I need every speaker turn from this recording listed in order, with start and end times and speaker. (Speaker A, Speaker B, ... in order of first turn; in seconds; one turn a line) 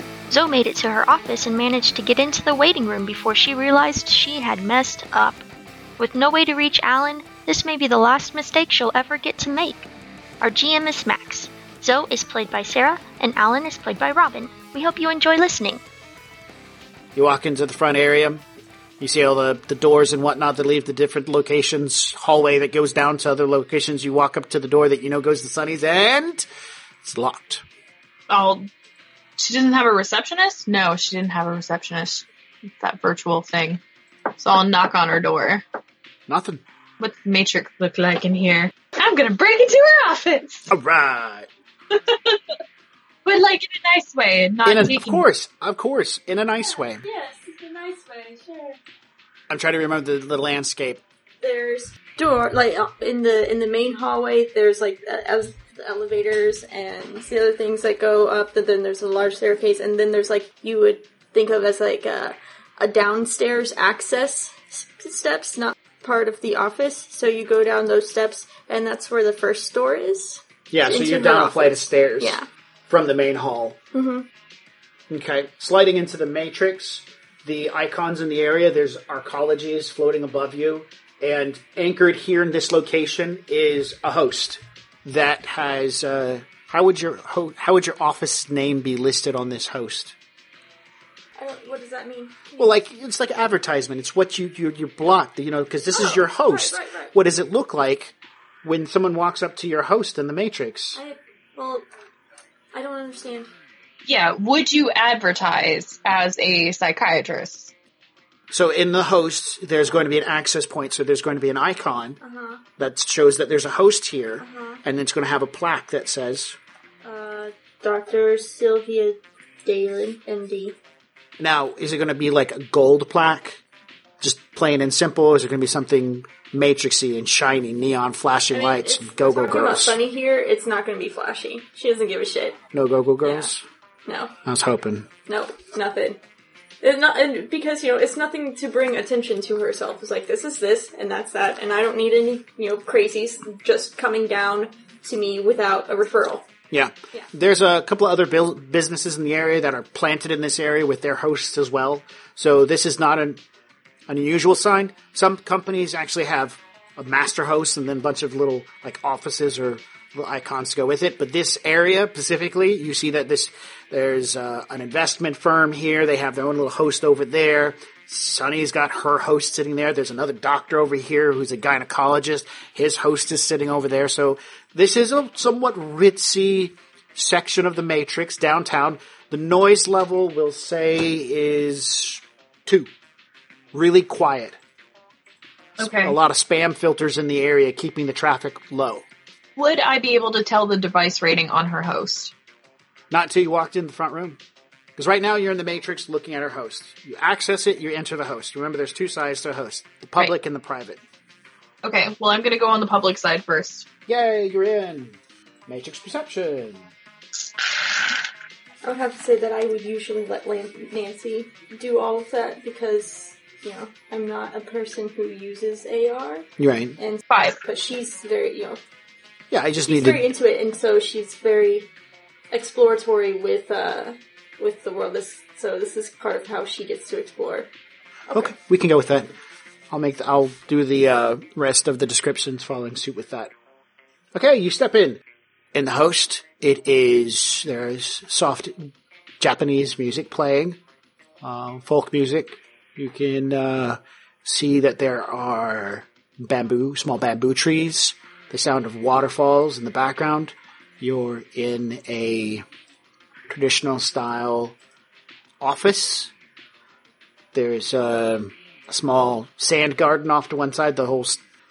Speaker A: 0.3-5.4
Speaker A: 6.0-9.9
Speaker A: 10.4-15.8
Speaker B: 17.1-18.4
Speaker B: 19.0-26.4
Speaker B: 27.0-27.6
Speaker C: 28.3-28.7
Speaker C: 29.4-32.2
Speaker C: 32.8-33.8
Speaker C: 34.3-35.6
Speaker B: 36.3-36.6
Speaker C: 37.0-40.8
Speaker B: 40.7-41.5
Speaker C: 41.9-42.5
Speaker C: 43.2-45.2
Speaker B: 44.6-47.0
Speaker D: 47.0-48.8
Speaker B: 49.5-51.0
Speaker D: 51.4-72.5
Speaker B: 70.7-73.8
Speaker D: 73.9-74.2
Speaker B: 75.1-90.1
Speaker D: 91.4-92.7
Speaker B: 92.6-101.0
Speaker D: 95.9-97.1
Speaker D: 101.0-101.9
Speaker D: 102.7-103.5
Speaker C: 104.0-107.7
Speaker B: 108.5-112.2
Speaker D: 112.2-112.6
Speaker B: 112.8-116.6
Speaker D: 114.4-114.8
Speaker D: 117.0-120.8
Speaker B: 121.4-123.6
Speaker B: 124.2-130.0
Speaker D: 128.5-132.6
Speaker B: 132.7-133.6
Speaker D: 133.2-133.5
Speaker D: 134.1-134.3
Speaker B: 134.4-135.1
Speaker D: 135.3-136.2
Speaker D: 136.8-146.5
Speaker B: 146.7-153.4
Speaker B: 154.1-182.9
Speaker B: 183.7-184.6
Speaker B: 185.8-189.1
Speaker C: 185.8-186.2
Speaker C: 189.6-192.3
Speaker B: 193.1-194.4
Speaker B: 195.0-201.0
Speaker C: 201.8-203.9
Speaker B: 204.1-206.9
Speaker D: 208.8-218.8
Speaker B: 216.6-217.0
Speaker C: 217.3-217.6
Speaker B: 219.5-220.3
Speaker D: 219.8-221.9
Speaker D: 222.5-227.7
Speaker B: 228.3-229.3
Speaker B: 229.9-233.5
Speaker B: 234.3-235.2
Speaker B: 235.7-240.8
Speaker B: 241.4-252.6
Speaker B: 253.5-254.8
Speaker B: 255.6-256.3
Speaker B: 257.5-261.4